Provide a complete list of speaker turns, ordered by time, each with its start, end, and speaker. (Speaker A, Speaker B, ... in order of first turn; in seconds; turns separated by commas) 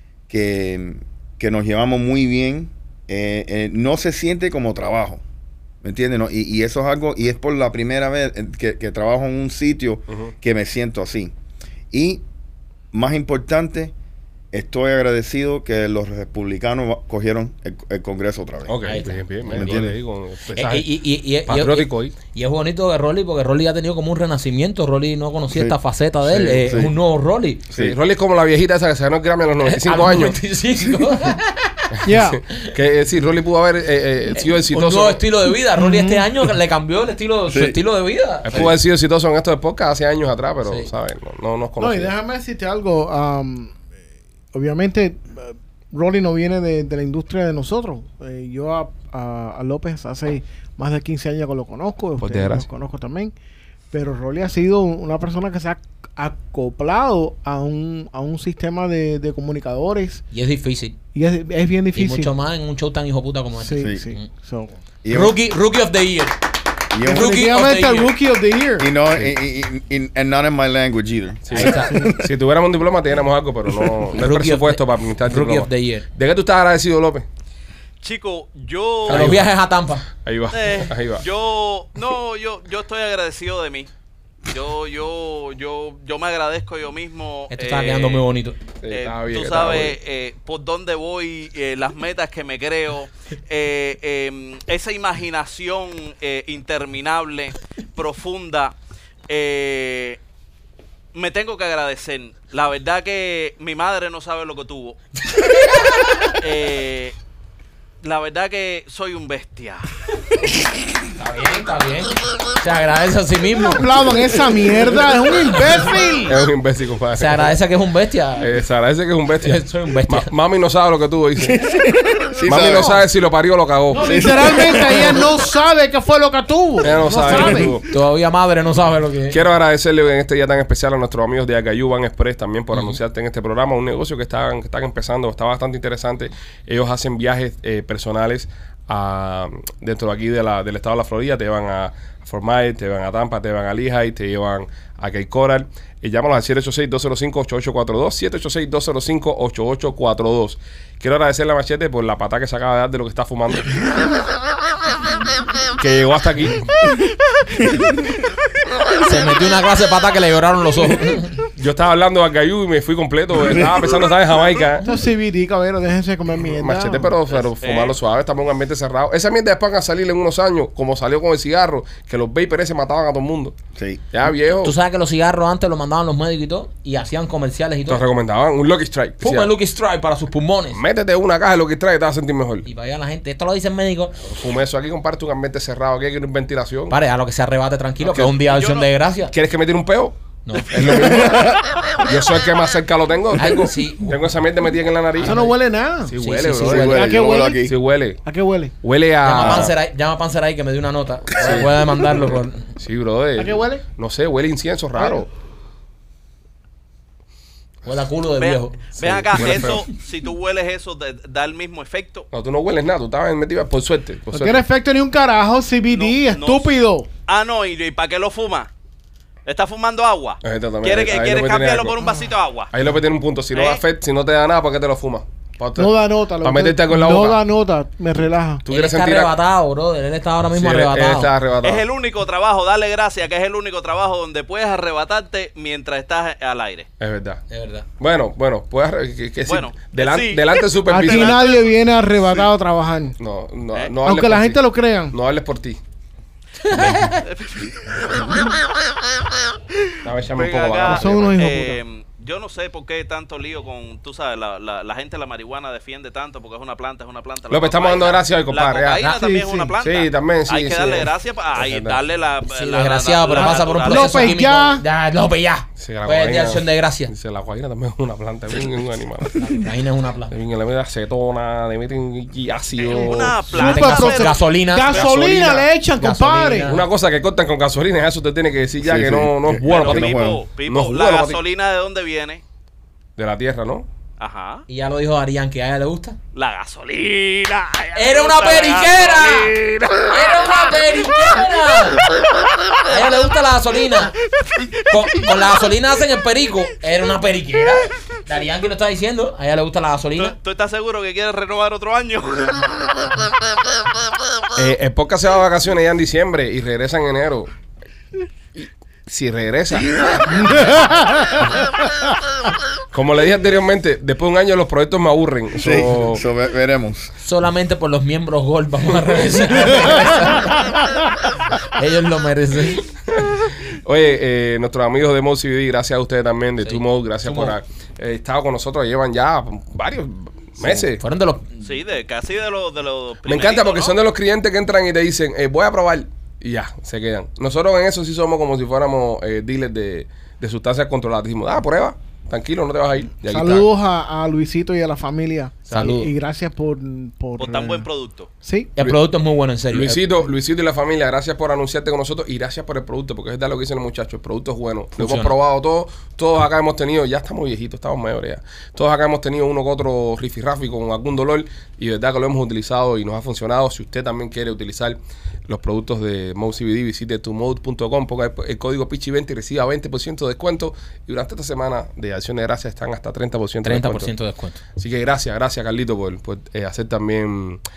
Speaker A: 0.3-5.2, Speaker A: 5.8-11.3, Speaker A: 11.9-12.2, Speaker A: 12.9-13.9, Speaker A: 14.5-18.8, Speaker B: 18.7-20.9, Speaker C: 18.8-19.9, Speaker A: 19.5-19.9, Speaker C: 20.5-27.6, Speaker B: 21.4-22.1, Speaker B: 26.2-26.7, Speaker A: 26.6-26.9, Speaker A: 27.7-27.9, Speaker B: 27.7-30.4, Speaker C: 29.6-32.0, Speaker D: 32.0-32.4, Speaker B: 32.3-35.2, Speaker C: 34.4-38.6, Speaker D: 35.8-36.2, Speaker A: 37.5-37.8, Speaker B: 38.4-42.1, Speaker D: 41.8-43.8, Speaker D: 44.5-53.3, Speaker B: 52.2-52.6, Speaker D: 53.9-60.2, Speaker C: 60.3-61.0, Speaker D: 61.1-62.3, Speaker C: 61.9-64.3, Speaker D: 63.6-64.8, Speaker A: 63.8-64.0, Speaker A: 65.0-65.4, Speaker C: 65.1-66.4, Speaker A: 66.9-67.5, Speaker D: 67.0-68.9, Speaker C: 67.0-68.1, Speaker A: 68.8-72.1, Speaker B: 71.5-77.2, Speaker C: 71.5-72.0, Speaker C: 74.1-76.1, Speaker E: 78.0-79.4, Speaker B: 79.1-79.5, Speaker C: 79.1-80.0, Speaker B: 80.2-81.2, Speaker E: 80.5-83.9, Speaker E: 84.5-88.3, Speaker C: 87.5-88.6, Speaker B: 88.8-90.0, Speaker E: 88.9-98.8, Speaker E: 99.3-100.2, Speaker E: 101.1-105.0, Speaker E: 106.4-107.1, Speaker E: 108.0-109.9, Speaker C: 111.2-114.1, Speaker D: 113.7-116.4, Speaker B: 116.3-117.5, Speaker C: 117.2-118.5, Speaker B: 118.4-121.6, Speaker C: 119.4-120.3, Speaker A: 121.4-123.0, Speaker B: 122.5-124.3, Speaker D: 123.9-127.8, Speaker A: 124.0-125.3, Speaker B: 126.8-127.9, Speaker C: 127.9-129.4, Speaker B: 129.3-153.9, Speaker B: 155.8-156.7, Speaker C: 159.0-161.3, Speaker B: 161.6-164.8, Speaker D: 164.8-167.1, Speaker B: 166.4-173.5, Speaker E: 167.6-168.0, Speaker A: 173.8-174.0, Speaker B: 174.1-174.8, Speaker C: 174.6-178.0, Speaker B: 177.9-179.5, Speaker C: 179.2-180.8, Speaker B: 180.7-182.7, Speaker C: 182.6-184.2, Speaker B: 184.2-187.0, Speaker C: 186.9-189.3, Speaker B: 188.0-188.3, Speaker E: 188.5-188.9, Speaker B: 189.3-195.5, Speaker C: 190.4-190.7, Speaker C: 193.4-194.2, Speaker C: 195.2-195.5, Speaker D: 195.2-196.1, Speaker B: 196.0-198.2, Speaker C: 196.1-197.0, Speaker A: 196.6-197.7, Speaker D: 196.8-197.7, Speaker D: 198.2-198.7, Speaker B: 198.8-199.7, Speaker C: 199.2-202.7, Speaker B: 201.4-201.7, Speaker B: 202.8-205.3, Speaker D: 203.4-203.8, Speaker D: 205.0-205.2, Speaker C: 207.8-208.8, Speaker E: 208.4-212.2, Speaker B: 208.9-209.9, Speaker B: 212.3-214.6, Speaker D: 214.3-217.1, Speaker E: 215.9-216.7, Speaker E: 217.3-218.7, Speaker E: 219.4-222.7, Speaker B: 220.4-222.0, Speaker B: 222.7-227.4, Speaker E: 223.5-223.8, Speaker D: 225.8-228.6, Speaker B: 228.6-229.3, Speaker C: 228.7-231.3, Speaker B: 230.5-231.8, Speaker E: 231.6-236.9, Speaker B: 237.0-237.4, Speaker C: 237.5-237.8, Speaker B: 238.0-241.4, Speaker E: 239.4-242.4, Speaker D: 240.9-243.2, Speaker B: 243.2-245.8, Speaker D: 244.0-245.1, Speaker C: 246.6-247.2, Speaker E: 247.2-248.4, Speaker B: 250.0-251.6, Speaker E: 250.3-264.4, Speaker D: 250.8-251.8, Speaker B: 257.5-259.1, Speaker D: 259.0-259.7, Speaker B: 259.8-262.0, Speaker C: 262.5-267.1, Speaker D: 263.4-264.8, Speaker B: 265.8-269.4, Speaker C: 269.4-270.3, Speaker B: 270.3-273.4, Speaker E: 272.7-275.6, Speaker D: 273.0-276.7, Speaker C: 273.5-275.1, Speaker B: 274.9-275.6, Speaker C: 276.0-276.9, Speaker B: 276.7-281.4, Speaker A: 278.8-280.4, Speaker E: 279.6-282.4, Speaker B: 283.2-283.9, Speaker E: 284.2-284.6, Speaker C: 284.7-286.2, Speaker E: 286.3-290.5, Speaker C: 287.9-289.5, Speaker C: 290.0-292.1, Speaker C: 292.8-294.1, Speaker C: 294.9-300.4, Speaker E: 300.2-303.2, Speaker B: 304.5-307.5, Speaker B: 308.5-310.7, Speaker B: 312.9-316.2, Speaker A: 315.6-317.1, Speaker C: 317.2-320.7, Speaker C: 321.6-322.8, Speaker B: 323.1-331.0, Speaker C: 326.6-327.6, Speaker C: 330.6-331.7, Speaker E: 331.6-334.0, Speaker B: 333.2-343.7, Speaker D: 343.3-347.9, Speaker C: 345.7-346.1, Speaker E: 347.4-348.3, Speaker D: 348.4-348.7, Speaker C: 348.8-350.0, Speaker B: 349.7-374.1, Speaker C: 355.0-355.3, Speaker C: 373.6-374.6, Speaker B: 374.8-377.6